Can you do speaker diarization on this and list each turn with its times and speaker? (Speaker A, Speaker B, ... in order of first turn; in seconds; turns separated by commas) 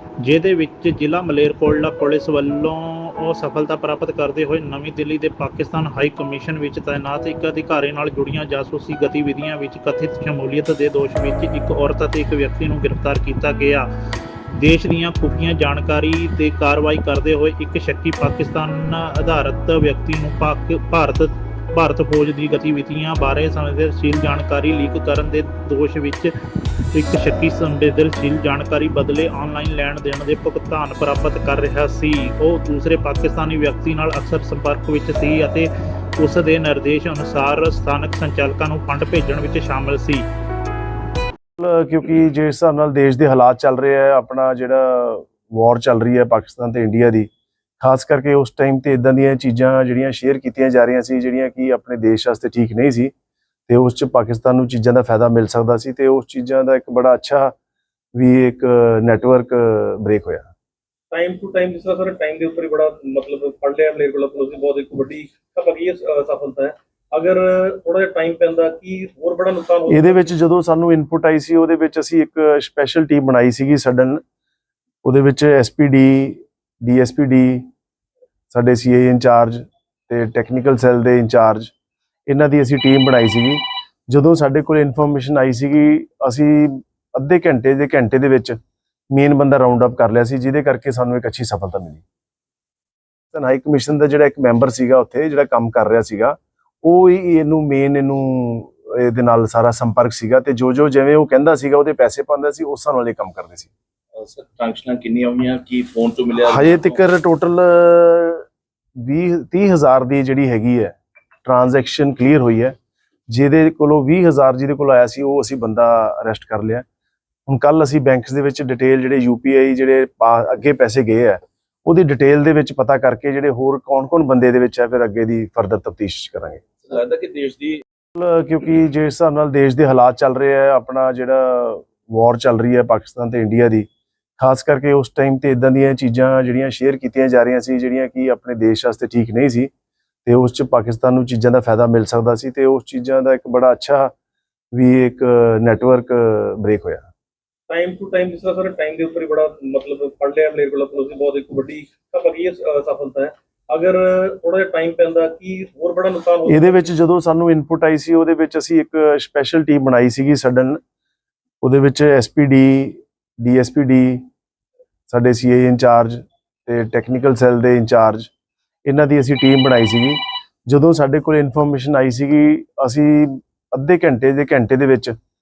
Speaker A: 0.2-13.9, Speaker A: 14.5-26.3, Speaker A: 26.9-40.2, Speaker B: 41.6-53.1, Speaker B: 53.7-57.5, Speaker B: 58.1-60.5, Speaker C: 61.1-70.3, Speaker B: 69.9-74.2, Speaker B: 75.0-77.7, Speaker B: 78.5-81.7, Speaker B: 82.3-88.6, Speaker B: 89.1-92.0, Speaker B: 93.3-103.7, Speaker D: 104.1-107.0, Speaker B: 106.5-108.5, Speaker B: 109.0-112.7, Speaker B: 113.3-116.8, Speaker B: 117.5-126.6, Speaker D: 126.8-127.8, Speaker B: 128.1-133.9, Speaker B: 134.4-139.7, Speaker B: 140.2-144.1, Speaker B: 144.7-147.1, Speaker C: 147.7-156.9, Speaker B: 156.5-160.8, Speaker B: 161.6-164.2, Speaker B: 165.1-168.3, Speaker B: 168.8-175.1